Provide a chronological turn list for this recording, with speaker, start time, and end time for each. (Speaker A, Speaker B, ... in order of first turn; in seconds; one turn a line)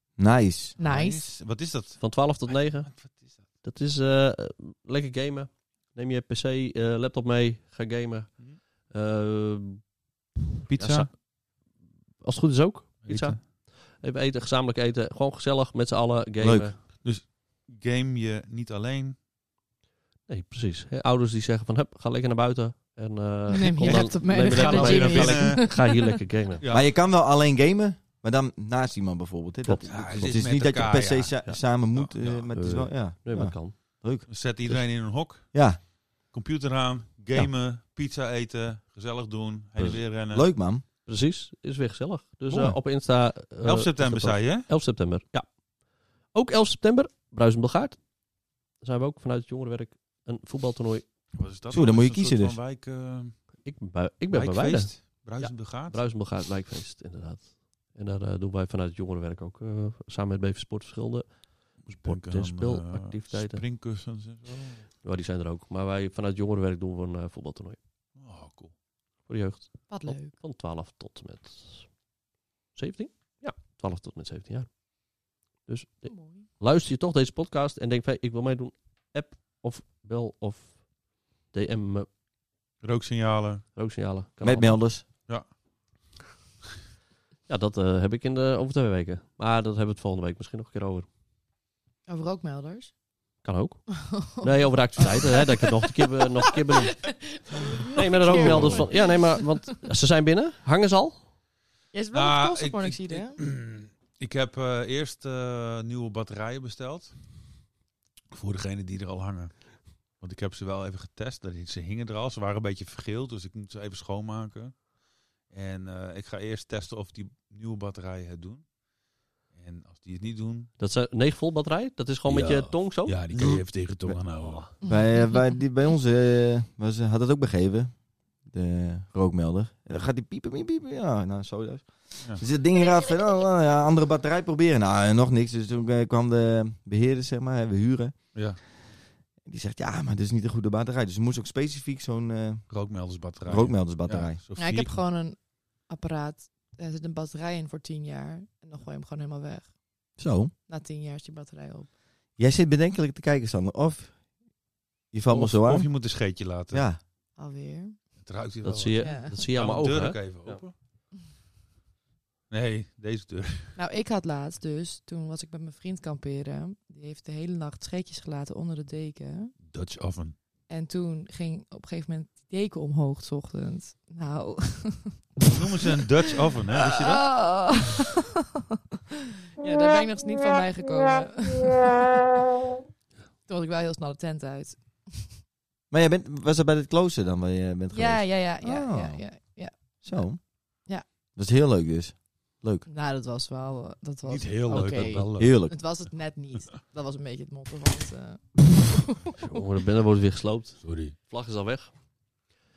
Speaker A: 0.2-0.8
Speaker B: 0.8-1.2
Speaker C: 0.8-3.4
Speaker D: 2.0-3.0
Speaker D: 3.6-9.9
Speaker D: 10.6-11.2
Speaker C: 10.7-11.1
Speaker D: 12.2-16.8
Speaker C: 13.0-13.4
Speaker A: 16.4-16.7
Speaker C: 17.0-19.1
Speaker D: 20.3-26.6
Speaker B: 23.5-26.0
Speaker C: 23.8-25.9
Speaker C: 26.6-26.9
Speaker A: 26.7-35.8
Speaker D: 29.6-30.4
Speaker C: 29.8-32.5
Speaker D: 32.5-34.0
Speaker C: 34.3-40.5
Speaker D: 39.8-40.0
Speaker A: 40.3-40.8
Speaker D: 41.0-45.5
Speaker A: 42.5-42.8
Speaker C: 43.6-44.8
Speaker D: 46.3-48.0
Speaker D: 48.8-51.0
Speaker C: 51.3-53.4
Speaker A: 51.7-52.6
Speaker D: 53.6-63.6
Speaker C: 54.3-56.0
Speaker C: 61.8-64.8
Speaker D: 65.0-67.8
Speaker C: 68.2-68.7
Speaker D: 69.2-71.9
Speaker B: 69.9-70.4
Speaker D: 72.7-80.8
Speaker B: 76.0-76.5
Speaker D: 81.5-82.1
Speaker C: 82.8-83.6
Speaker D: 83.7-84.9
Speaker A: 84.4-85.0
Speaker D: 87.5-91.0
Speaker B: 92.1-93.0
Speaker D: 93.4-97.0
Speaker B: 94.1-95.2
Speaker B: 97.0-99.6
Speaker D: 97.9-101.2
Speaker C: 98.2-98.9
Speaker B: 101.9-103.4
Speaker C: 102.1-107.1
Speaker C: 108.3-114.9
Speaker C: 115.5-118.7
Speaker C: 119.5-120.7
Speaker D: 120.8-124.7
Speaker C: 122.3-124.7
Speaker B: 124.8-125.5
Speaker A: 124.8-138.5
Speaker C: 138.3-138.6
Speaker A: 139.4-144.4
Speaker C: 142.7-145.0
Speaker B: 144.6-150.2
Speaker A: 150.2-150.5
Speaker B: 150.7-151.9
Speaker A: 152.4-154.2
Speaker A: 155.1-156.2
Speaker C: 155.3-156.9
Speaker A: 156.7-157.0
Speaker B: 157.4-158.0
Speaker C: 158.2-160.7
Speaker D: 158.6-160.6
Speaker B: 159.0-159.4
Speaker C: 162.5-163.7
Speaker B: 163.8-169.5
Speaker C: 169.6-170.3
Speaker B: 170.7-175.8
Speaker C: 175.4-177.3
Speaker B: 176.9-178.2
Speaker B: 179.6-182.2
Speaker B: 183.5-185.4
Speaker A: 185.9-192.8
Speaker B: 187.9-190.3
Speaker B: 192.9-198.9
Speaker C: 194.2-195.6
Speaker D: 194.9-195.2
Speaker A: 195.4-195.8
Speaker D: 199.4-201.9
Speaker C: 200.8-201.1